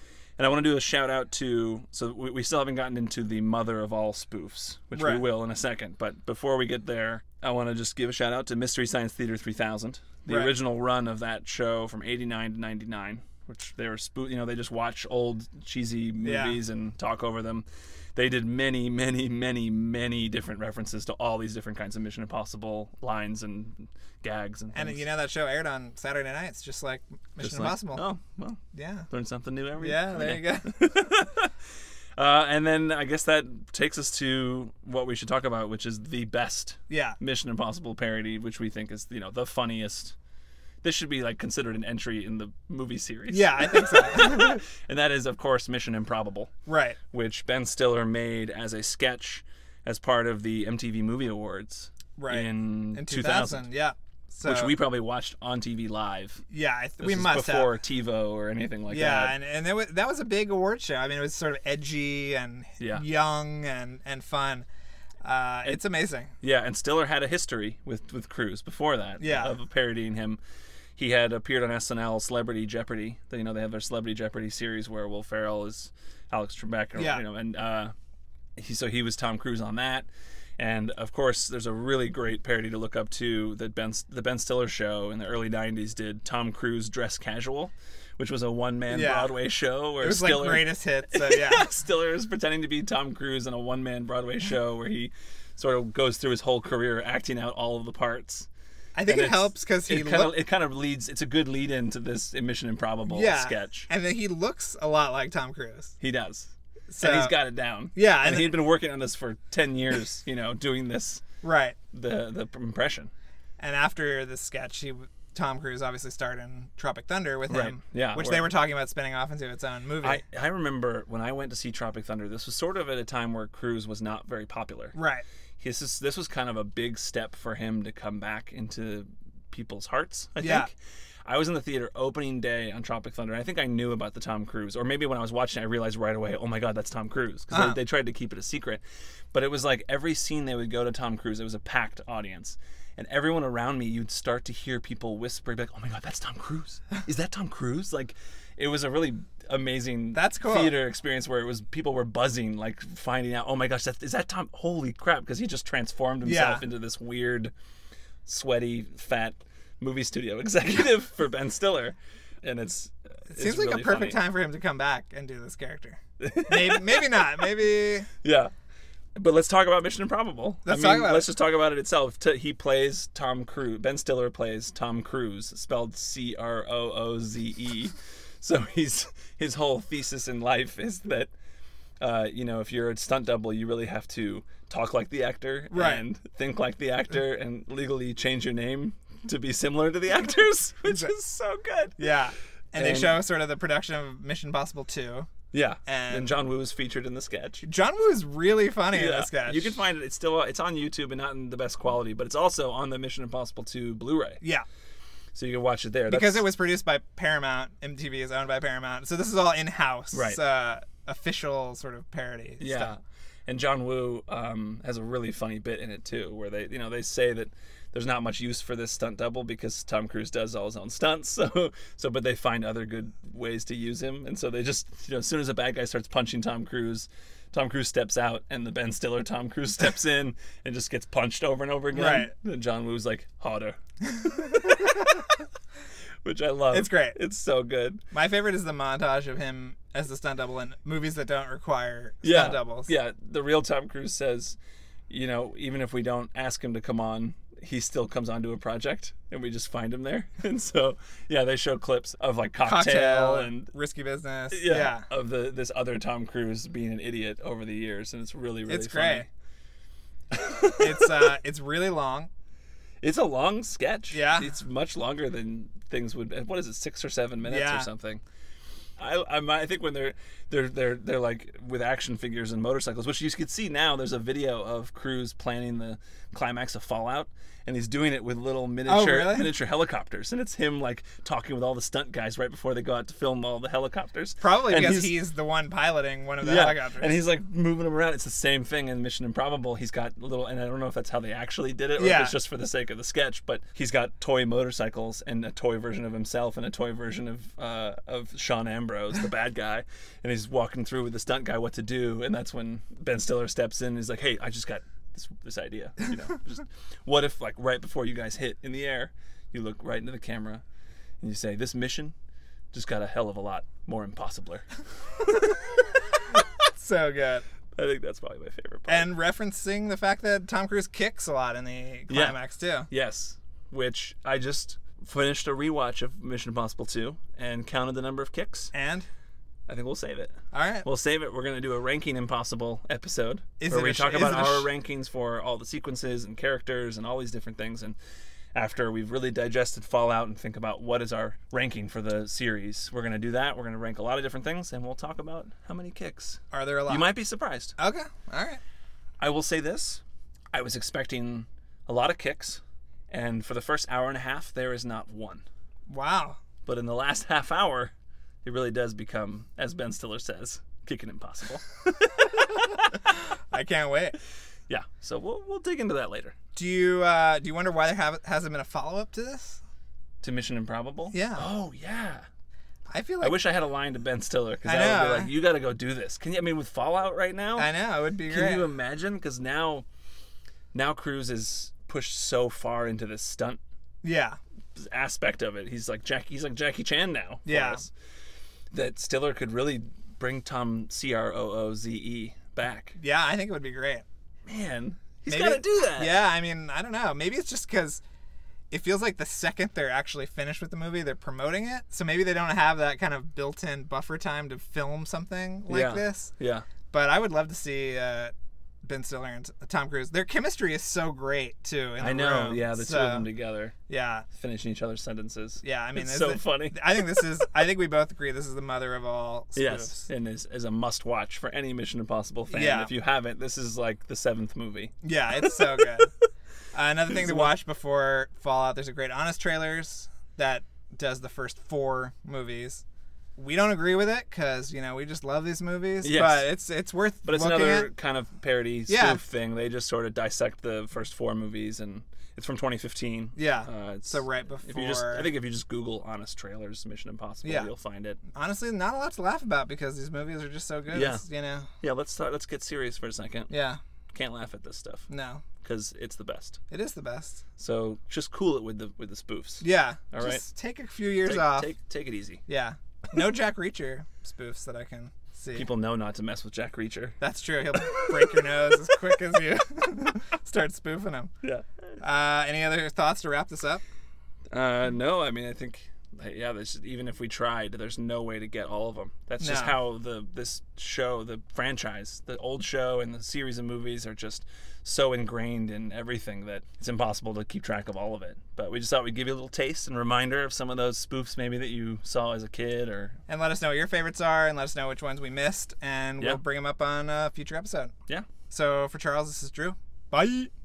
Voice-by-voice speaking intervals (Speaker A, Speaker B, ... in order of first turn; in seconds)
Speaker A: 0.4-25.0, 27.4-31.5, 32.2-40.2, 40.8-46.5, 47.1-53.7, 54.5-56.4, 57.0-59.4, 62.8-63.0, 66.4-70.4, 71.0-77.9, 78.6-98.5, 99.1-103.9, 106.0-111.2, 111.9-113.1, 117.5-118.5, 120.0-125.0, 125.6-130.8, 131.3-138.8, 139.3-157.5, 158.2-164.2, 166.2-167.3, 168.2-168.5, 169.2-181.3, 182.0-192.1, 192.8-193.2, 195.5-197.7, 198.9-204.4, 205.3-206.4, 210.1-210.4, 212.6-235.4, 236.2-238.0, 242.2-244.6, 245.1-253.7, 254.5-259.3, 260.3-261.2, 263.0-268.2, 269.0-285.1, 286.4-310.6, 311.2-312.1, 312.7-314.7, 315.2-315.5, 317.8-319.1, 322.1-328.7, 329.7-338.0, 338.6-347.8, 349.2-350.0, 350.5-355.4, 356.7-357.9, 358.4-363.0, 364.7-366.3, 370.2-372.3, 373.2-377.7, 378.3-379.9, 380.7-383.6, 384.8-387.9, 388.7-393.0, 394.5-396.2, 405.7-406.7, 412.0-413.7, 414.4-417.3, 419.6-426.2, 427.1-427.5, 436.0-436.5, 437.2-448.2, 450.9-451.2, 451.8-453.5, 454.1-455.1, 455.6-456.6, 457.6-460.4, 461.2-462.4, 465.5-467.2, 467.7-469.2, 474.5-493.2
Speaker B: 5.0-5.2, 10.3-10.6, 16.2-16.6, 24.7-28.1, 28.7-29.1, 29.8-30.8, 36.9-37.2, 43.3-44.6, 46.7-47.0, 52.2-54.7, 56.5-57.7, 58.9-64.7, 65.2-66.3, 69.2-69.5, 77.0-77.2, 88.9-89.3, 90.0-91.7, 99.0-100.3, 103.1-106.0, 106.9-107.4, 107.9-108.5, 111.4-111.8, 113.6-120.2, 124.9-125.3, 130.4-130.7, 137.5-137.8, 150.1-150.8, 156.2-156.7, 163.3-168.1, 170.7-171.3, 185.7-186.1, 190.9-191.1, 192.0-195.3, 195.9-196.3, 197.6-199.8, 206.1-212.9, 231.9-232.3, 236.7-237.2, 238.1-242.9, 252.6-255.1, 258.7-259.3, 260.8-262.3, 264.1-264.5, 267.4-267.9, 278.9-279.5, 284.4-287.1, 292.0-292.4, 316.7-317.4, 318.9-322.9, 328.7-329.1, 330.5-330.9, 333.6-334.7, 346.5-347.1, 347.8-348.6, 355.9-356.4, 363.5-364.2, 366.6-369.6, 371.1-371.5, 372.9-373.4, 374.6-375.3, 377.6-378.6, 384.0-384.4, 387.5-387.8, 393.0-394.1, 395.3-398.0, 398.7-406.3, 406.9-413.3, 413.9-414.3, 415.6-420.1, 422.5-422.9, 425.0-426.1, 426.7-432.8, 433.4-437.9, 438.9-439.2, 443.4-445.3, 447.4-447.7, 448.3-451.7, 453.5-453.8, 455.1-455.4, 456.7-457.4, 459.6-461.7, 462.5-465.7, 467.2-471.3, 472.0-473.8, 479.4-479.8, 493.3-497.9, 498.5-500.5